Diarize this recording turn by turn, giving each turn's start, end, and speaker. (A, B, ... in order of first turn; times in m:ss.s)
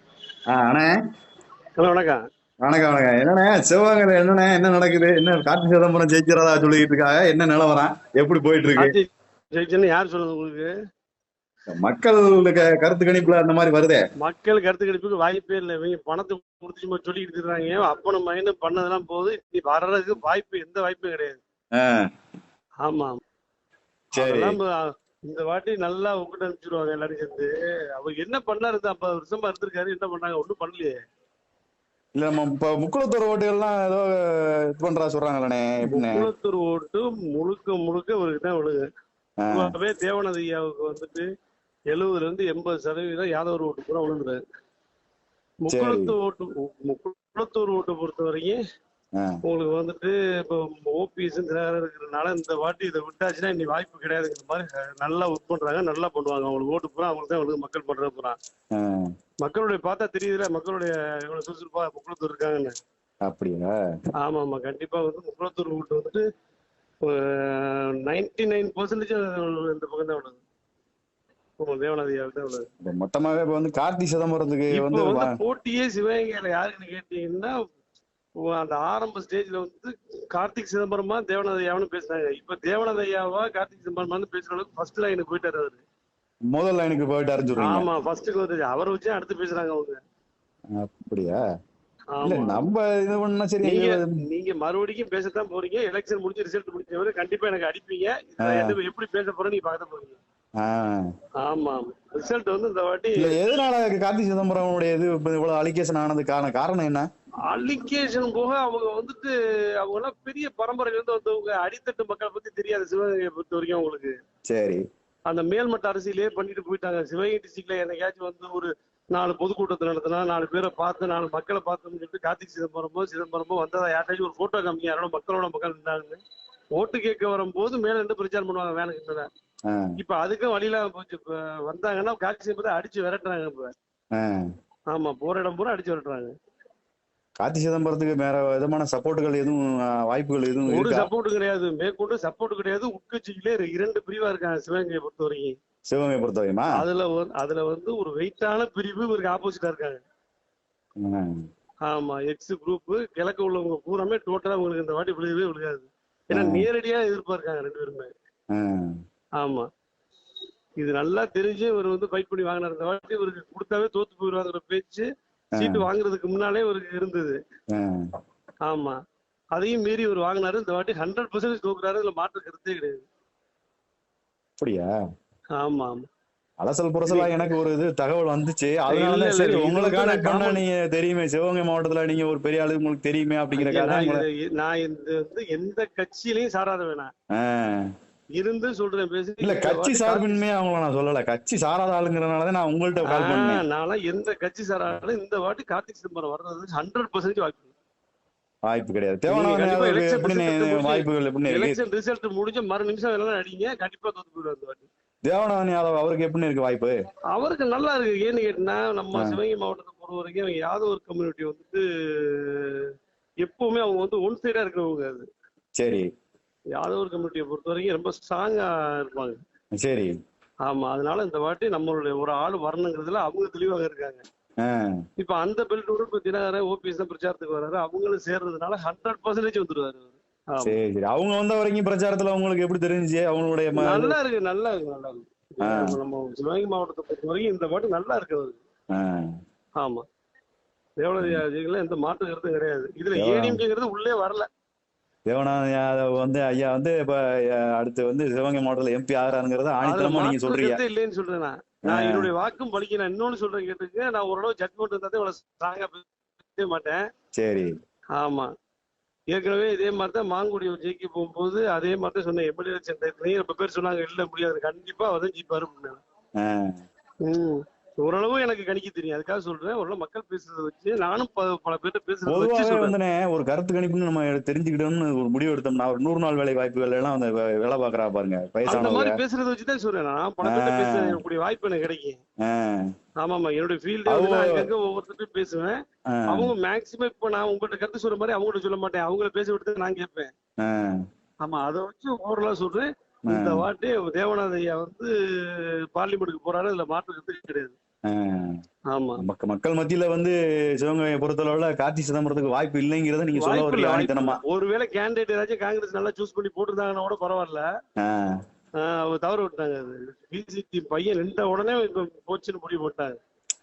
0:00.5-0:00.9 A
0:01.8-0:02.2 B
0:02.6-0:09.0 A
0:08.8-0:10.7 B
0:11.7-0:14.0 A
0:14.2-0:21.4 B
0:21.8-0:22.0 A
0:22.8-0:23.2 B
0:24.2-0:31.0 B
0:24.2-0:24.6 A
0:32.2-0:36.3 A
0:35.9-0:38.8 B
0:39.4-0:39.7 A
0:39.5-0:41.3 B
0:41.9-0:44.4 B
0:45.6-0:48.6 B
0:45.7-0:46.2 A
0:49.4-0:58.4 B
0:58.7-0:59.1 A
0:59.4-1:02.7 B
1:03.2-1:03.8 A
1:04.2-1:06.2 B
1:07.0-1:10.4 B
1:11.6-1:12.7 B
1:12.8-1:15.4 A
1:14.7-1:17.5 B
1:18.4-1:25.8 B
1:26.5-1:27.9 A
1:27.6-1:30.0 B
1:30.7-1:31.4 A
1:32.1-1:32.6 B
1:32.2-1:34.1 A
1:33.6-1:40.2 B
1:38.4-1:38.7 A
1:40.6-1:41.1 A
1:41.4-1:43.4 B
1:43.2-1:47.1 A
1:47.5-1:54.1 B
1:54.5-1:54.8 A
1:55.3-2:06.2 B
2:06.8-2:09.3 B
2:09.7-2:10.0 A
2:10.0-2:13.7 B
2:14.1-2:14.5 A
2:14.9-2:16.3 B
2:17.4-2:21.1 A
2:20.7-2:25.6 B
2:25.9-2:26.8 A
2:26.8-2:30.0 B
2:31.0-2:31.4 A
2:31.9-2:38.1 B
2:36.3-2:36.7 A
2:38.5-2:39.0 A
2:39.4-2:39.7 B
2:40.8-2:47.4 B
2:45.6-2:45.9 A
2:47.7-2:48.1 A
2:48.7-2:49.0 B
2:49.5-2:53.1 B
2:54.6-2:54.9 A
2:55.6-2:56.0 B
2:56.6-3:04.2 A
2:57.1-2:57.5 B
2:58.9-3:00.6 B
3:03.6-3:07.1 B
3:07.3-3:07.9 A
3:08.4-3:10.4 B
3:09.4-3:13.6 A
3:13.1-3:17.7 B
3:18.7-3:21.8 A
3:19.3-3:24.9 B
3:25.2-3:27.0 A
3:27.3-3:32.9 B
3:29.1-3:29.4 A
3:33.4-3:35.2 B
3:35.8-3:36.1 A
3:36.8-3:39.4 B
3:39.8-3:40.2 A
3:40.6-3:44.2 B
3:44.6-3:44.9 A
3:45.2-3:50.8 B
3:50.6-3:54.2 A
3:53.8-3:58.6 B
3:55.6-3:56.0 A
3:58.9-3:59.3 A
4:01.0-4:04.5 B
4:03.2-4:03.6 A
4:05.3-4:10.8 A
4:09.8-4:17.0 B
4:11.9-4:12.3 A
4:17.4-4:17.8 A
4:18.2-4:18.5 B
4:19.3-4:26.0 B
4:26.4-4:26.8 A
4:27.2-4:33.0 B
4:32.3-4:39.2 A
4:38.7-4:42.2 B
4:40.4-4:41.2 A
4:42.4-4:42.9 A
4:43.2-4:50.3 B
4:44.1-4:44.7 A
4:46.1-4:46.5 A
4:50.6-4:51.0 A
4:51.4-4:57.8 B
4:53.3-4:53.6 A
4:58.1-4:58.6 A
4:58.9-4:59.2 B
4:59.2-5:04.4 A
5:03.4-5:07.6 B
5:08.0-5:08.4 A
5:08.8-5:13.2 B